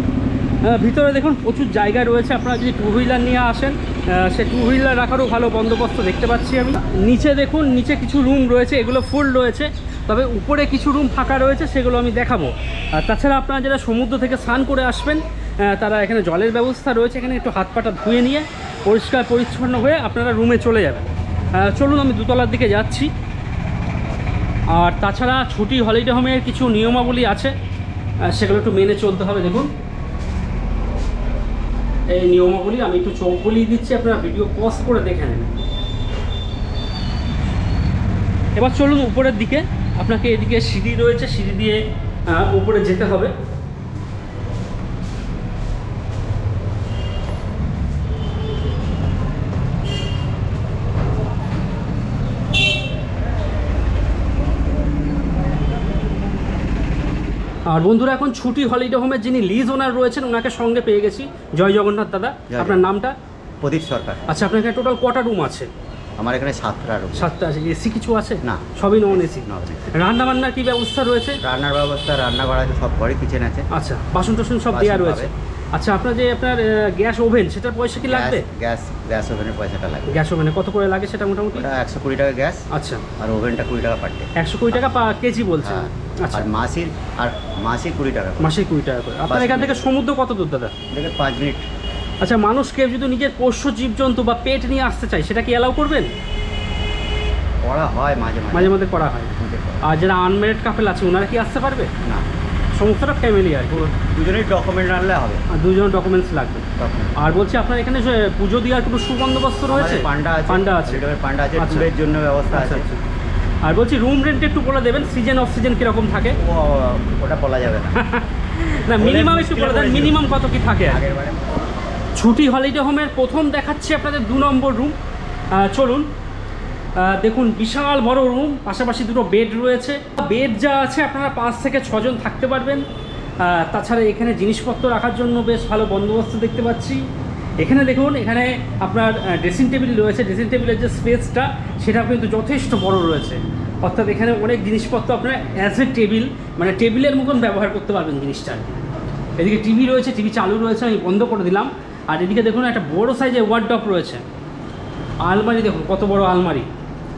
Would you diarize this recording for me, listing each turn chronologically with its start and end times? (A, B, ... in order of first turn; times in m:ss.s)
0:00.6-0:23.1 A
0:24.7-0:27.5 A
0:28.2-0:29.7 A
0:32.1-0:35.5 A
0:38.5-0:43.3 A
0:57.7-1:03.1 A
1:02.5-1:02.8 B
1:03.6-1:04.3 B
1:04.3-1:05.7 A
1:06.2-1:07.3 B
1:07.2-1:11.4 A
1:08.4-1:09.9 B
1:11.4-1:13.7 B
1:13.7-1:18.4 A
1:14.7-1:15.3 B
1:18.0-1:20.1 B
1:20.1-1:21.7 A
1:21.5-1:22.7 B
1:22.7-1:23.0 A
1:23.2-1:24.9 B
1:24.4-1:26.5 A
1:25.6-1:28.5 B
1:28.4-1:30.7 A
1:29.3-1:29.8 B
1:30.9-1:31.6 B
1:32.2-1:36.1 A
1:37.6-1:38.7 B
1:38.5-1:41.9 A
1:39.4-1:39.8 B
1:42.8-1:43.9 A
1:43.7-1:45.4 B
1:45.5-1:51.9 A
1:46.8-1:47.2 B
1:49.7-1:52.8 B
1:52.5-1:53.0 A
1:53.6-1:56.4 A
1:56.4-1:58.0 B
1:57.9-2:01.0 A
1:59.0-2:00.2 B
2:00.9-2:01.5 B
2:02.2-2:04.9 A
2:05.5-2:06.0 A
2:07.0-2:12.8 A
2:13.4-2:17.0 A
2:17.6-2:28.8 A
2:29.4-2:34.2 A
2:35.2-2:36.7 A